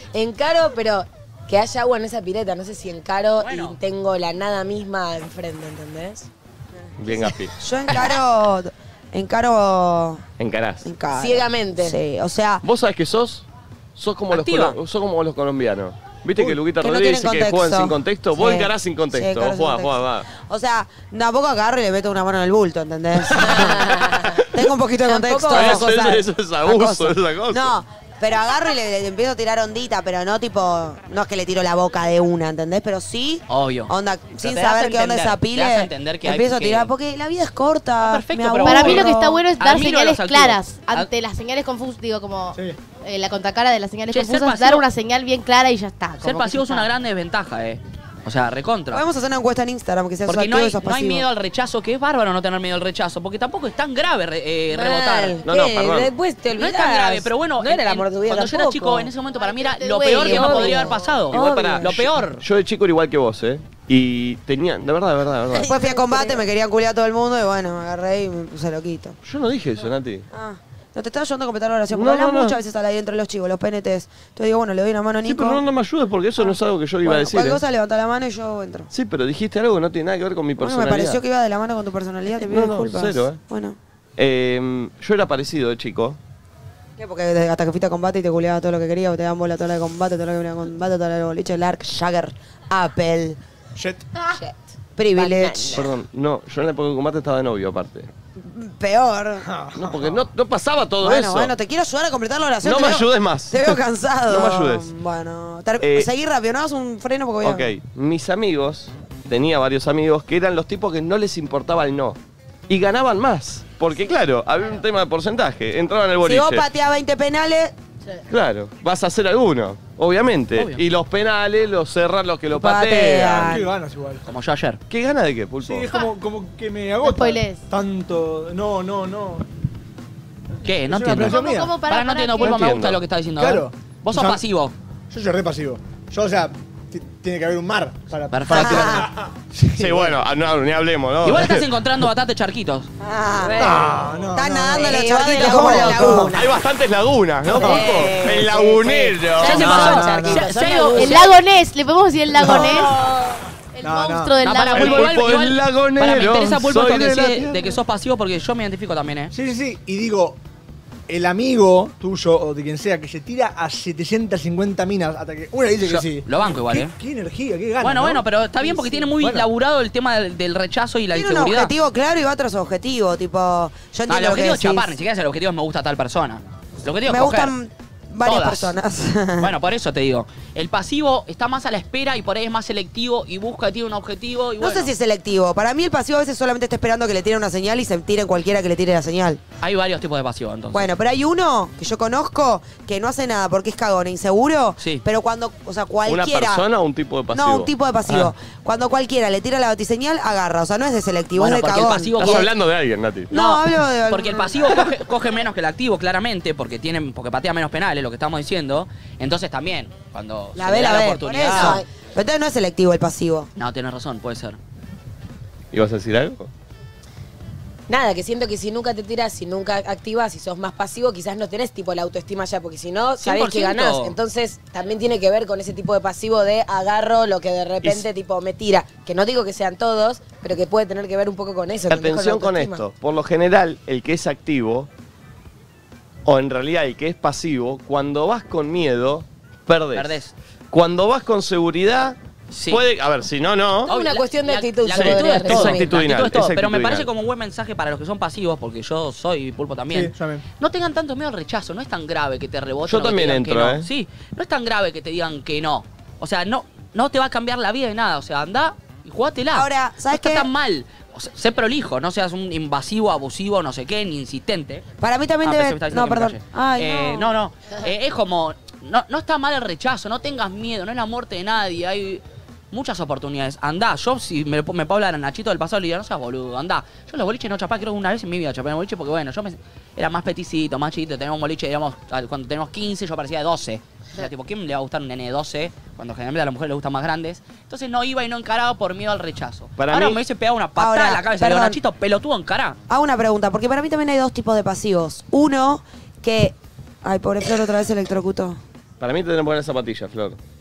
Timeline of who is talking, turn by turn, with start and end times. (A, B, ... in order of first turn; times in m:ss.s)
0:00.1-0:06.3 A
0:03.4-0:03.8 B
0:07.0-0:07.5 C
0:07.6-0:10.2 D
0:10.4-0:10.9 C
0:10.8-0:12.6 D
0:11.1-0:12.0 A
0:12.6-0:20.3 C
0:14.3-0:14.8 B
0:16.4-0:39.5 D
0:23.4-0:24.4 A
0:25.0-0:26.0 A
0:25.5-0:27.8 C
0:33.5-0:36.9 B
0:38.0-0:41.1 B
0:38.6-0:46.9 E
0:44.1-0:44.9 B
0:46.2-0:49.0 B
0:48.9-0:51.3 D
0:50.3-0:55.4 B
0:54.7-0:59.1 A
0:55.4-0:56.1 C
0:56.6-1:02.4 B
0:59.4-1:01.0 E
1:00.2-1:02.0 A
1:01.3-1:05.7 C
1:05.5-1:06.4 A
1:05.5-1:09.2 D
1:09.2-1:10.2 C
1:10.3-1:15.6 D
1:11.9-1:12.6 C
1:15.2-1:17.6 C
1:16.4-1:18.9 D
1:18.9-1:21.2 C
1:20.6-1:23.8 D
1:22.3-1:23.4 C
1:24.2-1:26.2 C
1:27.0-1:33.4 D
1:33.8-1:34.1 F
1:34.2-1:34.6 A
1:35.0-1:35.8 D
1:35.2-1:35.9 A
1:35.7-1:38.1 C
1:38.4-1:39.5 D
1:39.4-1:40.2 F
1:39.8-1:41.5 C
1:41.0-1:47.7 D
1:42.6-1:44.9 C
1:45.8-1:46.1 C
1:47.4-1:52.2 C
1:52.7-1:56.7 C
1:56.2-1:57.7 D
1:58.3-2:03.6 C
2:00.6-2:00.8 B
2:02.5-2:03.7 D
2:03.4-2:04.2 F
2:04.2-2:04.8 B
2:04.9-2:05.9 C
2:05.6-2:09.4 F
2:07.0-2:07.6 E
2:10.6-2:14.7 B
2:10.9-2:11.8 F
2:11.2-2:12.6 E
2:12.4-2:13.0 C
2:13.4-2:14.4 F
2:15.1-2:20.2 F
2:18.3-2:19.1 B
2:19.8-2:21.7 C
2:21.2-2:22.9 B
2:23.1-2:23.8 A
2:23.3-2:23.8 D
2:23.6-2:26.3 F
2:24.3-2:26.3 D
2:24.7-2:26.5 A
2:26.4-2:29.9 C
2:27.5-2:31.4 A
2:27.5-2:27.8 F
2:29.4-2:31.3 B
2:29.4-2:30.5 F
2:30.9-2:33.0 E
2:32.3-2:32.9 F
2:33.7-2:35.2 E
2:33.8-2:34.4 F
2:34.4-2:39.3 B
2:34.7-2:37.6 C
2:39.3-2:40.4 F
2:41.1-2:49.5 F
2:45.8-2:46.9 B
2:47.8-2:51.7 B
2:51.1-2:54.9 D
2:54.1-2:57.5 B
2:57.1-2:59.5 D
2:58.2-2:58.8 B
2:59.4-3:04.9 B
3:04.6-3:09.4 D
3:09.6-3:10.9 B
3:10.7-3:16.6 D
3:14.8-3:15.0 B
3:16.1-3:18.3 C
3:17.3-3:22.5 D
3:21.4-3:22.5 B
3:22.2-3:23.3 C
3:23.3-3:24.9 D
3:23.3-3:31.8 B
3:30.6-3:33.5 D
3:31.5-3:31.8 A
3:33.6-3:34.6 B
3:35.7-3:36.5 C
3:37.9-3:52.8 A
3:43.2-3:44.2 B
3:51.9-3:54.9 C
3:56.2-4:00.2 C
3:59.9-4:00.3 B
4:00.7-4:02.2 C
4:02.5-4:02.8 B
4:02.7-4:03.9 C
4:03.9-4:05.8 A
4:03.9-4:24.8 B
4:04.9-4:07.1 C
4:09.9-4:10.4 F
4:12.9-4:13.9 C
4:19.5-4:20.5 D
4:25.0-4:27.3 D
4:25.4-4:52.8 B
4:49.8-4:50.2 C
4:50.8-4:51.8 D
4:52.9-4:58.6 D
4:59.0-5:00.4 C